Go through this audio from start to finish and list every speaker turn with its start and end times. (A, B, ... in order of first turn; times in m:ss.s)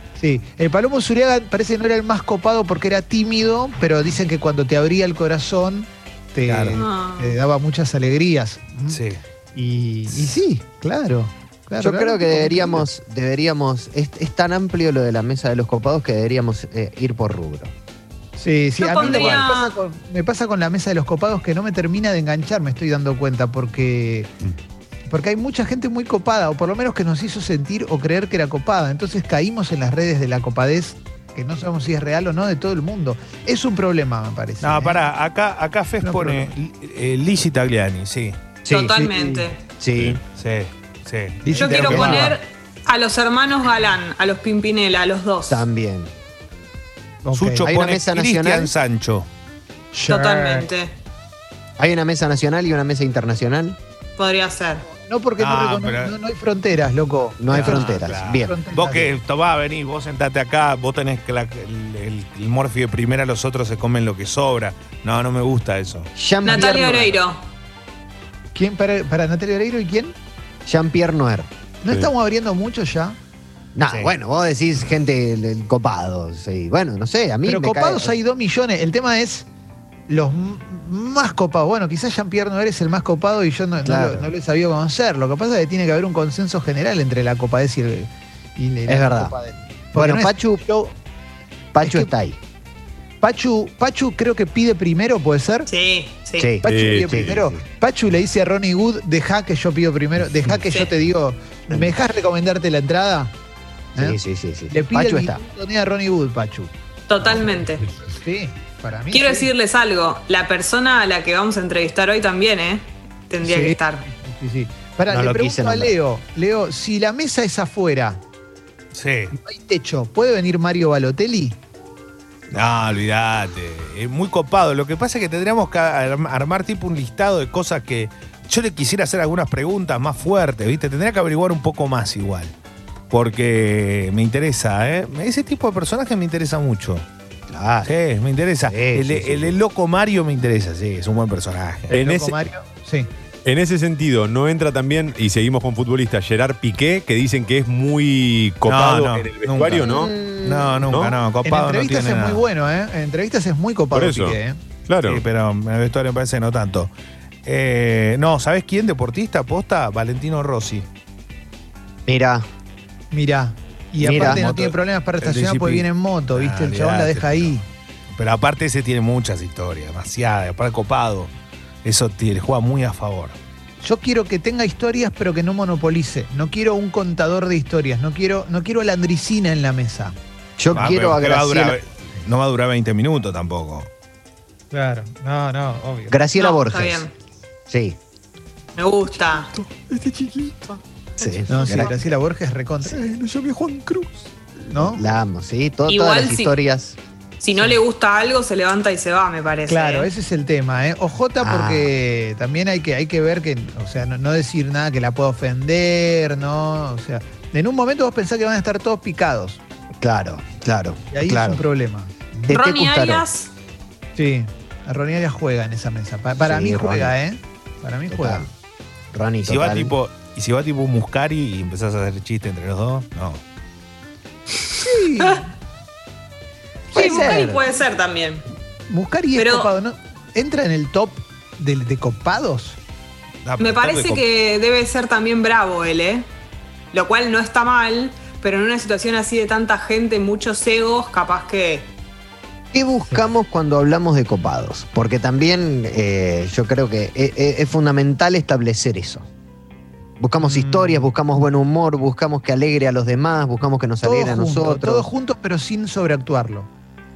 0:00.2-0:09.0 A
0:06.4-0:06.8 B
0:06.8-0:07.4 C
0:08.9-0:09.2 D
0:09.5-0:12.8 A
0:11.8-0:17.7 B
0:18.4-0:24.3 A
0:18.8-0:19.7 C
0:19.0-0:19.4 D
0:25.1-0:35.1 A
0:34.6-0:38.4 D
0:36.0-0:36.5 A
0:38.6-0:39.0 B
0:38.6-0:39.6 C
0:38.9-0:39.5 A
0:39.8-0:40.2 B
0:40.3-0:42.4 D
0:41.4-0:42.4 A
0:41.5-0:45.6 C
0:45.5-0:46.1 B
0:47.2-0:47.7 A
0:47.3-0:49.3 D
0:47.6-0:48.7 B
0:49.9-0:50.7 A
0:50.1-0:50.9 C
0:51.8-0:53.8 B
0:54.2-0:54.8 C
0:55.0-0:59.2 A
0:55.4-0:56.1 D
0:57.4-0:58.5 B
0:57.5-1:06.1 D
1:06.2-1:07.2 B
1:06.4-1:07.4 C
1:08.5-1:10.1 A
1:10.6-1:11.5 B
1:11.8-1:13.2 A
1:13.7-1:18.1 B
1:13.9-1:14.1 D
1:17.4-1:19.5 A
1:20.1-1:30.9 A
1:23.8-1:24.3 B
1:28.9-1:29.3 B
1:29.9-1:30.6 B
1:31.7-1:32.4 B
1:31.8-1:32.1 A
1:33.2-1:35.7 A
1:35.7-1:36.5 C
1:36.4-1:37.6 B
1:36.6-1:43.3 A
1:36.6-1:37.4 E
1:44.0-1:45.4 B
1:44.7-1:46.7 A
1:47.1-1:47.8 C
1:48.0-1:49.5 A
1:49.1-1:54.0 C
1:53.4-1:58.2 A
1:55.1-1:55.9 B
1:58.9-1:59.3 D
1:59.3-2:01.6 A
2:02.5-2:12.5 D
2:13.1-2:17.0 D
2:17.5-2:17.9 B
2:17.8-2:22.1 D
2:18.6-2:19.6 B
2:21.9-2:22.3 E
2:21.9-2:23.1 A
2:23.4-2:30.1 E
2:28.7-2:29.9 D
2:29.8-2:31.0 B
2:30.4-2:32.4 D
2:30.9-2:31.2 E
2:31.4-2:34.6 A
2:33.9-2:35.2 E
2:35.0-2:36.9 D
2:37.4-2:40.9 D
2:42.0-2:42.4 B
2:43.1-2:47.6 A
2:44.0-2:44.4 B
2:44.0-2:47.6 D
2:48.1-2:51.3 D
2:51.8-2:53.4 D
2:53.8-3:00.2 A
3:00.6-3:01.8 B
3:00.7-3:03.9 D
3:04.7-3:06.2 A
3:06.1-3:07.1 B
3:06.4-3:07.1 C
3:07.7-3:08.0 B
3:08.8-3:09.5 C
3:09.5-3:10.8 A
3:11.2-3:12.0 B
3:11.5-3:15.1 A
3:14.7-3:17.0 B
3:15.9-3:16.5 C
3:17.4-3:20.1 C
3:19.7-3:29.6 A
3:21.4-3:21.9 B
3:30.0-3:31.6 B
3:31.1-3:32.6 A
3:32.5-3:33.2 B
3:32.5-3:33.5 C
3:34.2-3:38.5 A
3:36.4-3:37.1 B
3:38.1-3:38.5 B
3:39.1-3:39.9 B
3:39.4-3:43.4 D
3:44.8-3:45.5 A
3:46.9-3:47.6 B
3:46.9-3:47.6 A
3:46.9-3:48.4 C
3:48.9-3:52.8 A
3:49.4-3:49.7 C
3:53.4-3:54.2 D
3:53.6-3:56.3 C
3:56.9-4:01.9 C
4:02.7-4:09.3 B
4:10.2-4:15.1 B
4:10.4-4:11.1 A
4:14.0-4:16.7 A